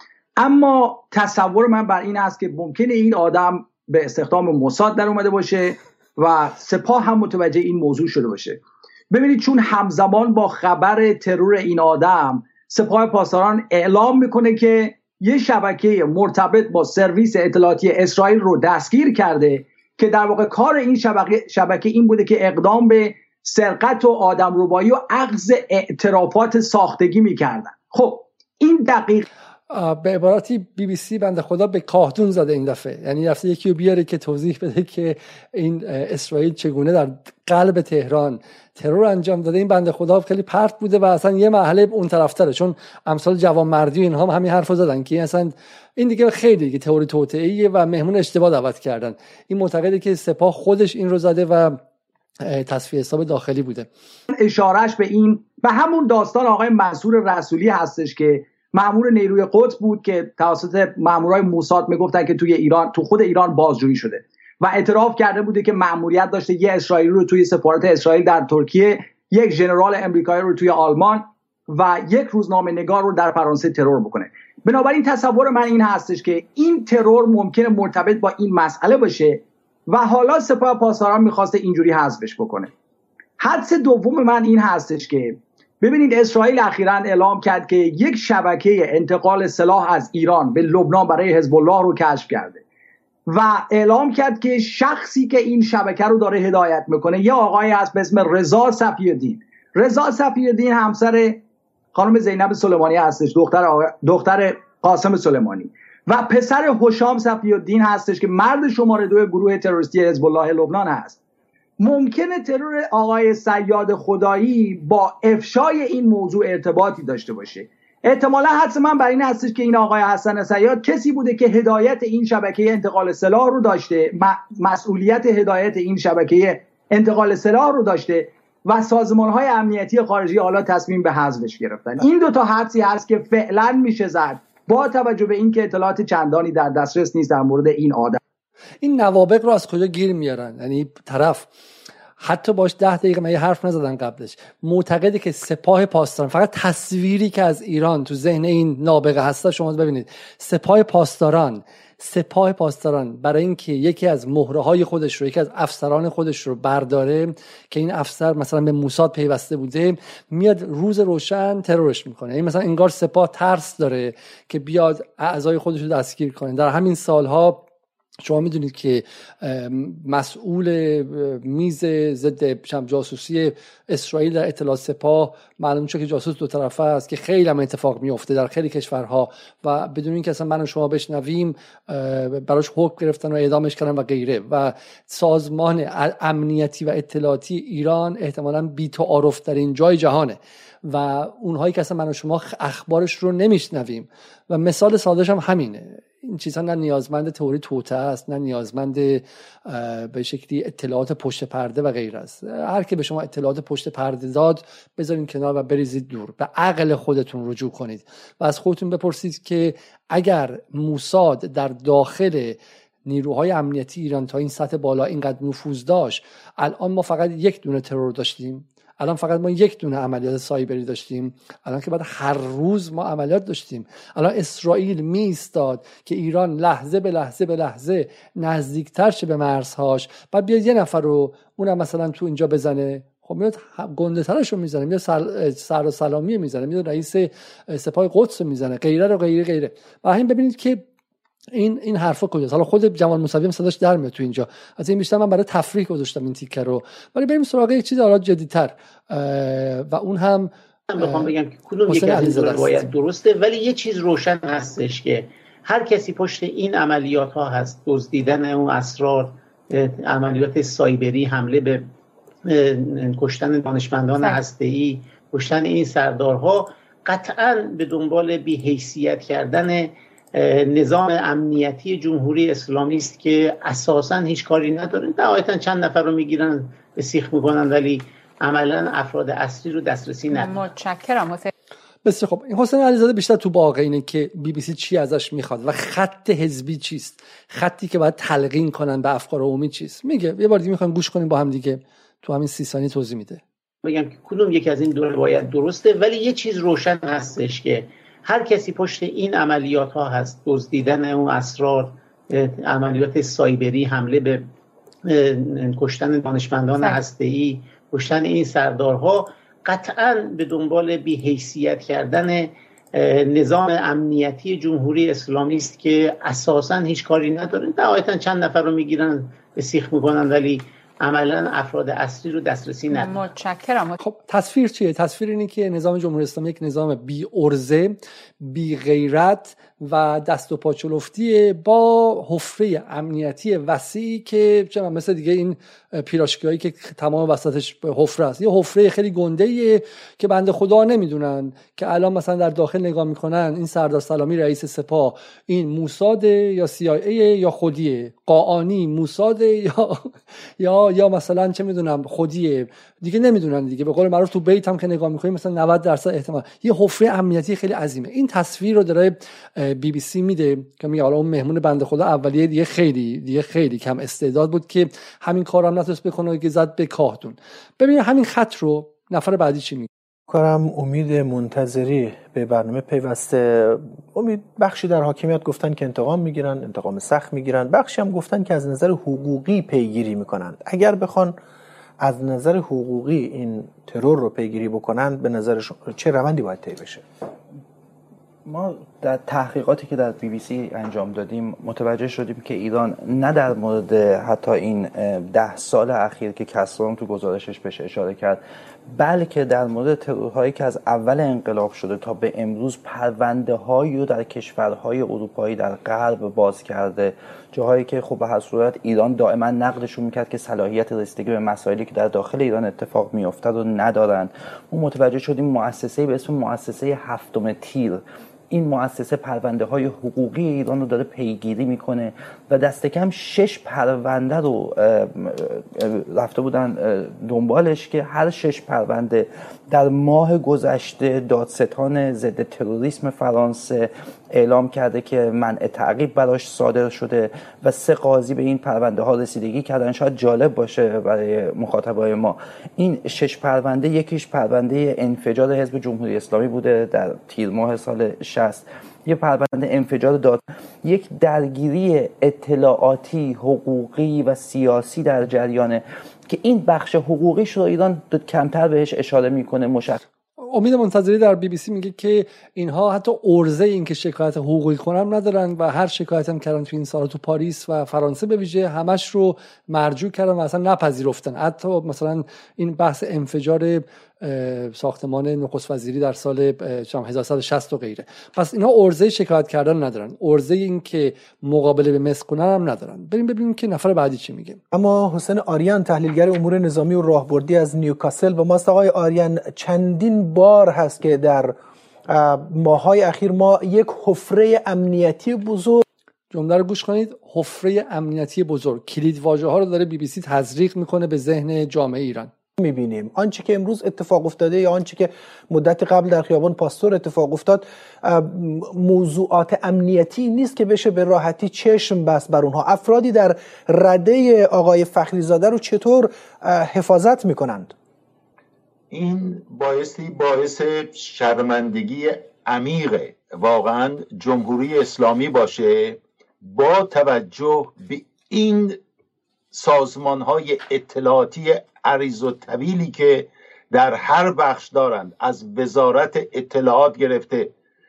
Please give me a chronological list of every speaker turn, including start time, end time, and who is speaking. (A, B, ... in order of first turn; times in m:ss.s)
0:00.4-0:29.2 A
0:29.7-0:51.8 B
0:52.4-0:53.9 B
0:54.3-1:22.7 A
1:23.4-1:32.6 A
1:33.3-1:41.4 A
1:41.9-1:51.2 A
1:51.8-2:18.2 A
2:18.8-2:21.5 B
2:22.2-2:47.6 B
2:48.2-4:00.8 B
4:01.5-4:11.3 B
4:10.9-4:21.9 C
4:11.9-4:12.8 B
4:22.4-4:40.7 C
4:40.3-4:41.5 D
4:42.0-4:53.4 B
4:53.8-5:04.5 C
5:05.0-5:23.2 C
5:22.9-5:24.0 D
5:24.0-6:09.9 B
6:10.3-6:21.4 E
6:22.0-6:27.0 E
6:28.4-6:38.4 F
6:38.9-7:40.0 F
7:40.4-8:04.6 B
8:04.7-8:11.5 E
8:12.1-8:15.8 E
8:16.3-8:22.3 B
8:22.6-8:37.7 E
8:38.9-8:48.8 G
8:49.5-8:57.5 G